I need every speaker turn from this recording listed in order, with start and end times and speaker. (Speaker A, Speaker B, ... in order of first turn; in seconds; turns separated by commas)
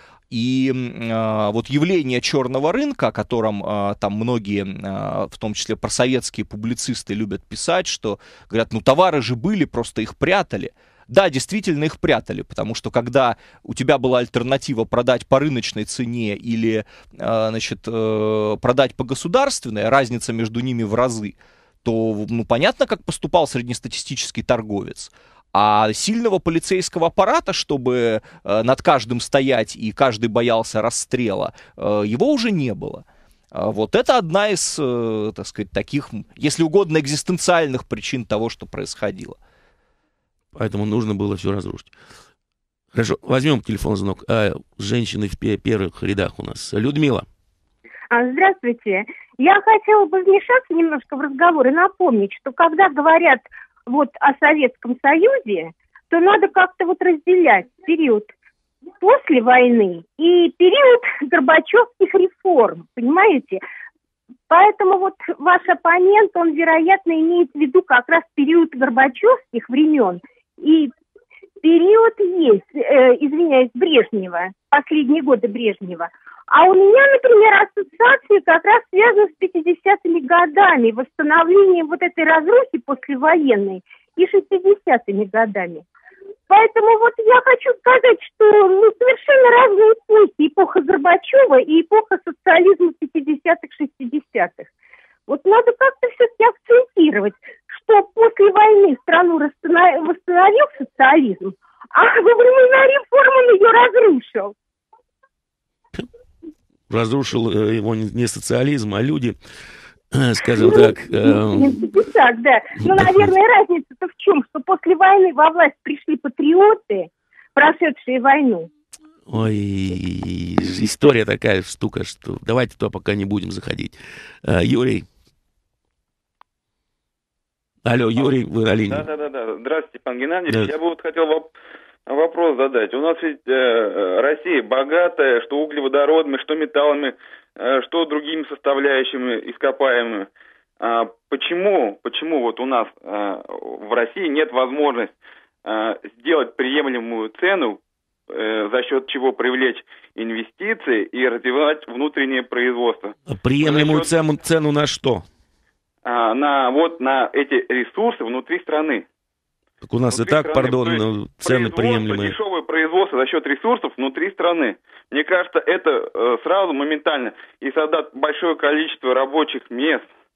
Speaker A: 0.3-39.4, Speaker B: 40.5-41.9, Speaker B: 42.9-47.2, Speaker C: 48.1-58.3, Speaker C: 59.0-63.6, Speaker C: 64.5-70.9, Speaker C: 71.6-85.8, Speaker C: 86.5-94.7, Speaker C: 95.3-104.5, Speaker B: 106.9-109.3, Speaker B: 110.1-111.8, Speaker C: 110.6-118.7, Speaker B: 112.9-113.3, Speaker B: 119.3-125.0, Speaker B: 127.8-129.1, Speaker D: 128.9-131.5, Speaker D: 132.1-145.1, Speaker D: 145.6-154.1, Speaker B: 153.3-155.2, Speaker D: 156.0-159.1, Speaker B: 159.8-162.4, Speaker D: 160.1-170.1